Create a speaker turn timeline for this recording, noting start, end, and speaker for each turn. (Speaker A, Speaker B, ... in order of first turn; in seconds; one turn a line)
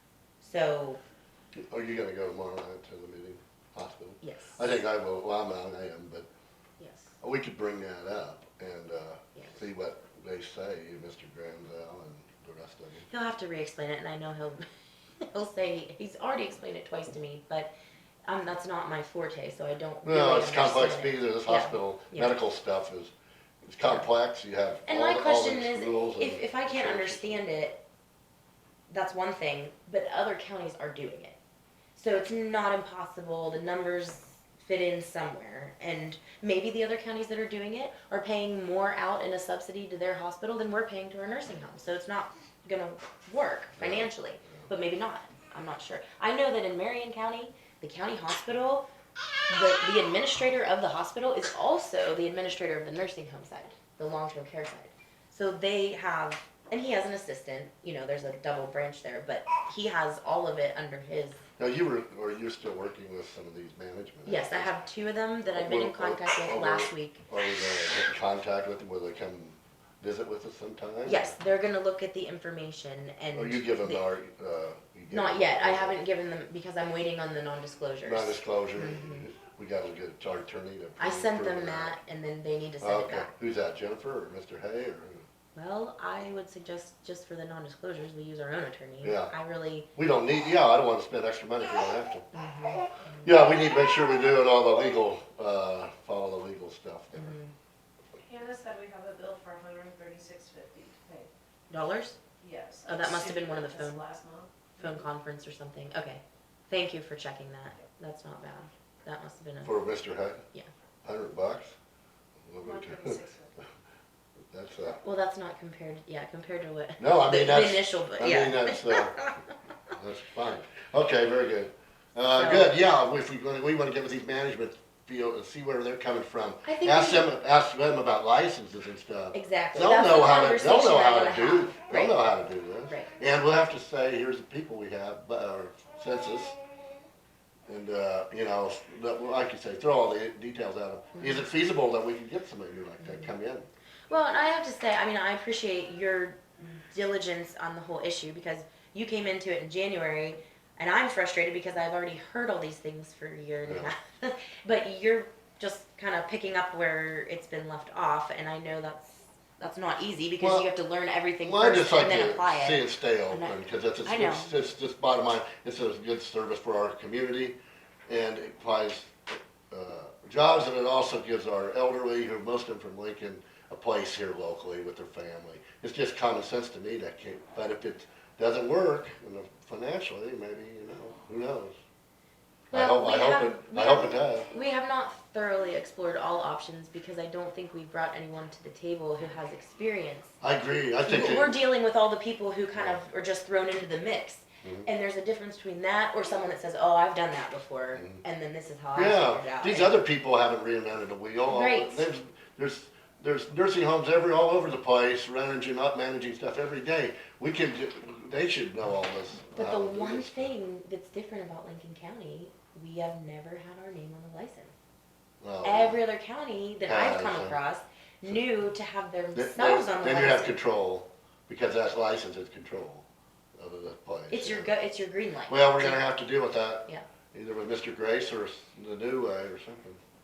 Speaker A: 0.4-1.0
Speaker B: 1.6-6.3
Speaker A: 4.2-4.8
Speaker A: 6.8-7.1
Speaker B: 7.2-13.1
Speaker A: 13.1-17.7
Speaker A: 18.2-22.4
Speaker B: 20.0-23.1
Speaker B: 23.6-27.4
Speaker A: 24.9-27.8
Speaker A: 28.9-31.4
Speaker A: 31.9-48.9
Speaker B: 43.8-44.7
Speaker A: 49.5-61.4
Speaker B: 61.6-64.7
Speaker A: 64.2-67.2
Speaker B: 65.5-71.2
Speaker A: 71.0-74.0
Speaker B: 73.3-76.0
Speaker A: 75.1-79.2
Speaker B: 78.0-82.0
Speaker A: 81.0-83.3
Speaker B: 82.8-85.2
Speaker A: 85.5-89.9
Speaker B: 89.0-89.3
Speaker B: 89.9-92.3
Speaker A: 92.3-93.3
Speaker B: 93.2-97.3
Speaker A: 97.1-97.5
Speaker C: 98.2-101.3
Speaker A: 101.7-102.2
Speaker C: 102.4-104.5
Speaker A: 102.8-104.0
Speaker A: 104.8-109.8
Speaker B: 109.6-110.5
Speaker B: 111.0-111.8
Speaker B: 112.5-113.6
Speaker C: 112.6-113.5
Speaker B: 114.5-115.0
Speaker A: 115.0-119.4
Speaker B: 117.0-119.2
Speaker B: 119.9-136.6
Speaker A: 122.3-122.7
Speaker A: 126.7-127.3
Speaker A: 129.3-132.2
Speaker B: 137.7-143.7
Speaker A: 144.1-164.6
Speaker B: 153.7-153.9
Speaker B: 160.4-160.7
Speaker B: 161.4-167.6
Speaker B: 168.1-181.8
Speaker B: 182.7-184.5
Speaker A: 182.7-190.3
Speaker B: 190.4-191.6
Speaker A: 191.0-200.0
Speaker B: 194.6-194.9
Speaker B: 198.9-210.5
Speaker A: 201.5-202.1
Speaker A: 209.5-214.7
Speaker B: 215.4-216.0
Speaker A: 215.6-220.6
Speaker B: 216.8-217.6
Speaker B: 219.3-223.1
Speaker B: 223.6-224.7
Speaker A: 224.3-226.1
Speaker B: 225.5-230.0